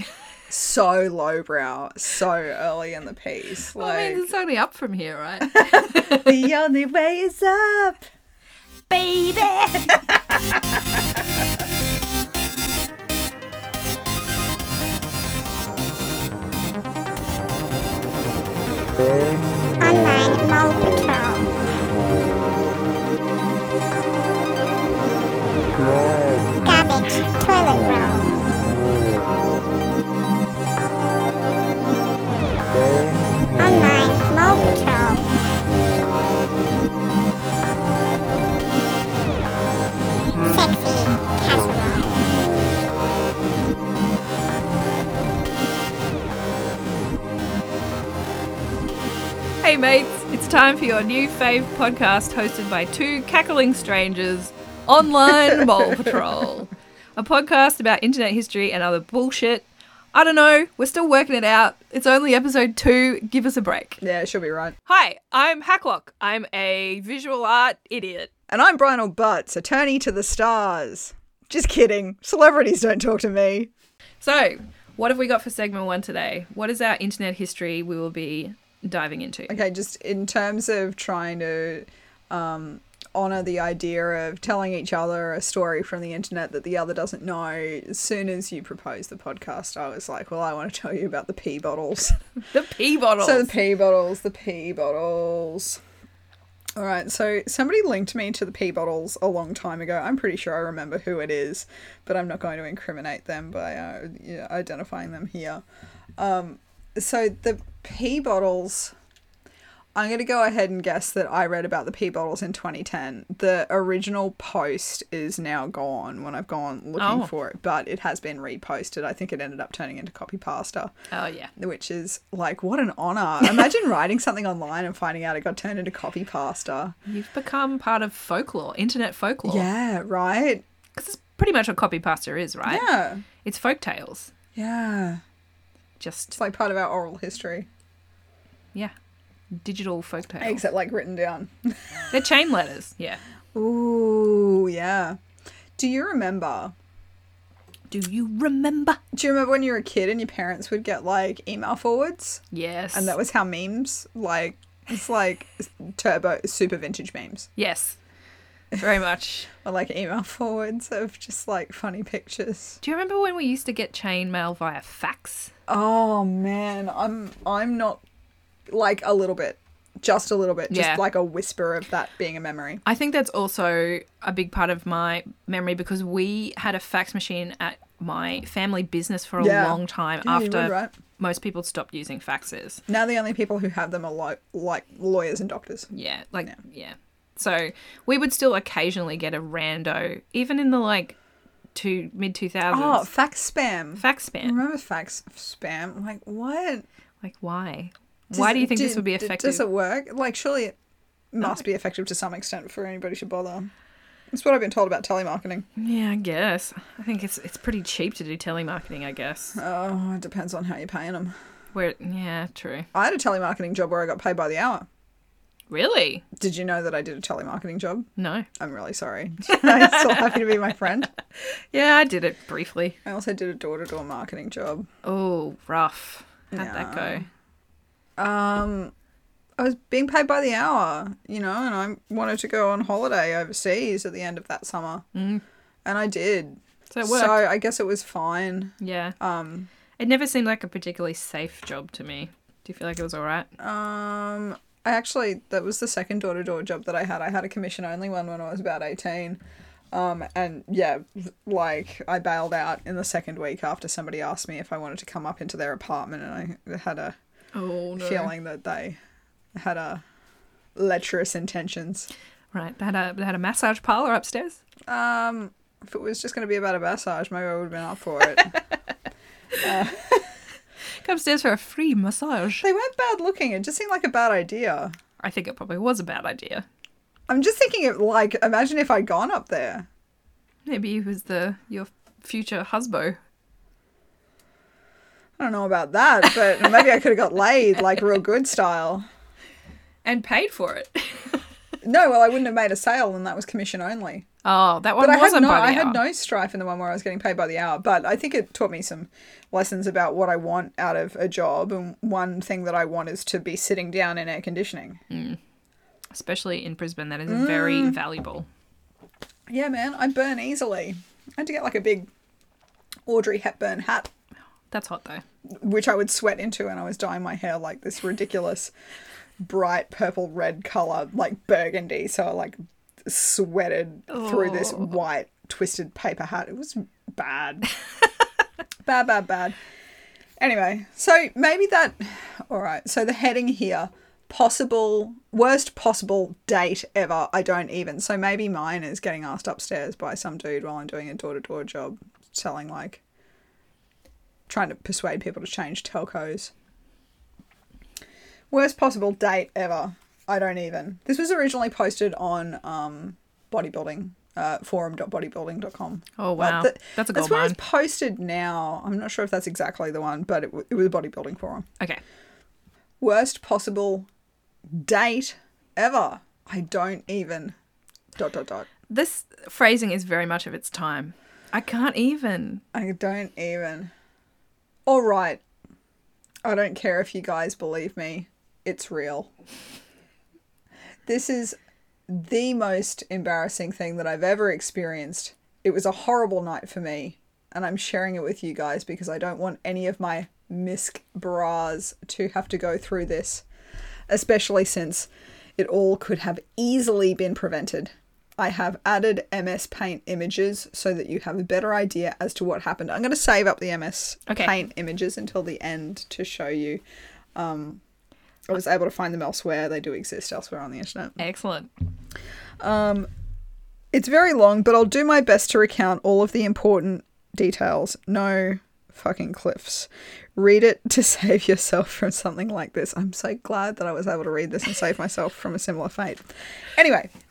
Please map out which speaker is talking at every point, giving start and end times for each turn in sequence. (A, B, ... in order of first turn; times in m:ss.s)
0:00.5-0:04.2 A
0:03.8-0:06.4 B
0:05.5-0:08.0 A
0:08.9-0:10.1 B
0:19.8-0:21.5 C
0:26.6-0:28.4 C
0:33.6-0:35.3 C
0:40.5-0:42.2 C
0:49.6-1:04.0 B
1:04.0-1:04.8 A
1:04.8-1:08.3 B
1:08.5-1:13.7 A
1:14.2-1:19.6 B
1:19.5-1:32.2 A
1:32.5-1:33.5 B
1:33.2-1:35.8 A
1:36.8-1:45.6 A
1:46.2-1:48.9 A
1:49.9-2:00.9 A
1:57.0-1:57.3 B
2:01.1-2:01.5 B
2:01.6-2:06.9 A
2:07.1-2:09.7 B
2:09.4-2:10.6 A
2:10.9-2:12.8 B
2:12.6-2:13.2 A
2:13.4-2:14.3 B
2:14.5-2:15.2 A
2:16.0-2:16.4 B
2:16.3-2:17.7 A
2:19.5-2:20.6 B
2:20.4-2:21.7 A
2:22.1-2:23.2 B
2:23.5-2:25.2 A
2:25.8-2:26.7 A
2:27.9-2:29.0 B
2:29.1-2:37.5 A
2:32.5-2:33.2 B
2:37.6-2:38.0 B
2:38.7-2:39.5 B
2:39.5-2:42.8 A
2:42.8-2:45.5 B
2:45.7-2:48.0 A
2:48.7-2:52.8 A
2:50.7-2:51.0 B
2:52.8-3:02.8 B
2:59.4-3:00.9 A
3:02.9-3:05.9 A
3:05.9-3:11.2 B
3:11.7-3:13.1 B
3:12.7-3:16.8 A
3:14.0-3:14.6 B
3:17.2-3:19.6 B
3:18.3-3:20.7 A
3:21.3-3:23.7 A
3:24.3-3:25.6 A
3:25.8-3:29.6 B
3:29.5-3:31.3 A
3:31.7-3:32.9 B
3:32.9-3:34.8 A
3:35.7-3:36.2 B
3:36.4-3:41.1 A
3:38.2-3:38.5 B
3:39.5-3:40.3 B
3:41.7-3:43.0 B
3:43.0-3:44.9 A
3:45.0-3:47.2 B
3:46.5-3:47.2 A
3:48.2-3:48.9 A
3:49.6-3:55.0 A
3:55.1-3:55.4 B
3:55.8-3:59.7 A
3:56.9-3:57.4 B
3:58.8-3:59.2 B
4:00.0-4:03.5 B
4:03.6-4:09.4 A
4:09.9-4:17.2 A
4:17.5-4:18.3 B
4:18.0-4:19.0 A
4:19.5-4:20.0 A
4:20.8-4:22.1 A
4:22.5-4:24.6 B
4:24.9-4:28.6 A
4:29.6-4:30.3 A
4:31.0-4:32.6 B
4:32.6-4:34.9 A
4:35.2-4:36.6 B
4:37.3-4:39.9 A
4:40.6-4:43.2 B
4:45.4-4:49.1 A
4:50.0-4:51.4 B
4:51.8-4:54.3 A
4:54.4-4:56.0 B
4:55.0-5:05.0 A
5:05.1-5:05.4 B
5:06.1-5:08.5 B
5:07.3-5:08.0 A
5:09.5-5:12.1 A
5:13.0-5:14.1 A
5:14.7-5:15.2 B
5:15.5-5:18.7 A
5:19.4-5:27.7 A
5:24.1-5:25.0 B
5:28.8-5:29.6 A
5:30.4-5:43.0 A
5:44.5-5:46.5 A
5:48.5-6:01.6 A
5:56.2-5:57.6 B
6:03.0-6:04.1 A
6:04.7-6:07.5 A
6:08.2-6:08.7 A
6:08.9-6:12.6 B
6:12.7-6:13.9 A
6:14.8-6:15.4 A
6:16.4-6:19.3 A
6:21.0-6:21.6 A
6:22.1-6:33.4 A
6:34.1-6:46.8 A
6:44.3-6:44.6 B
6:47.3-6:47.8 A
6:48.5-6:51.2 A
6:51.2-6:51.7 B
6:52.6-6:53.1 A
6:53.9-7:07.1 A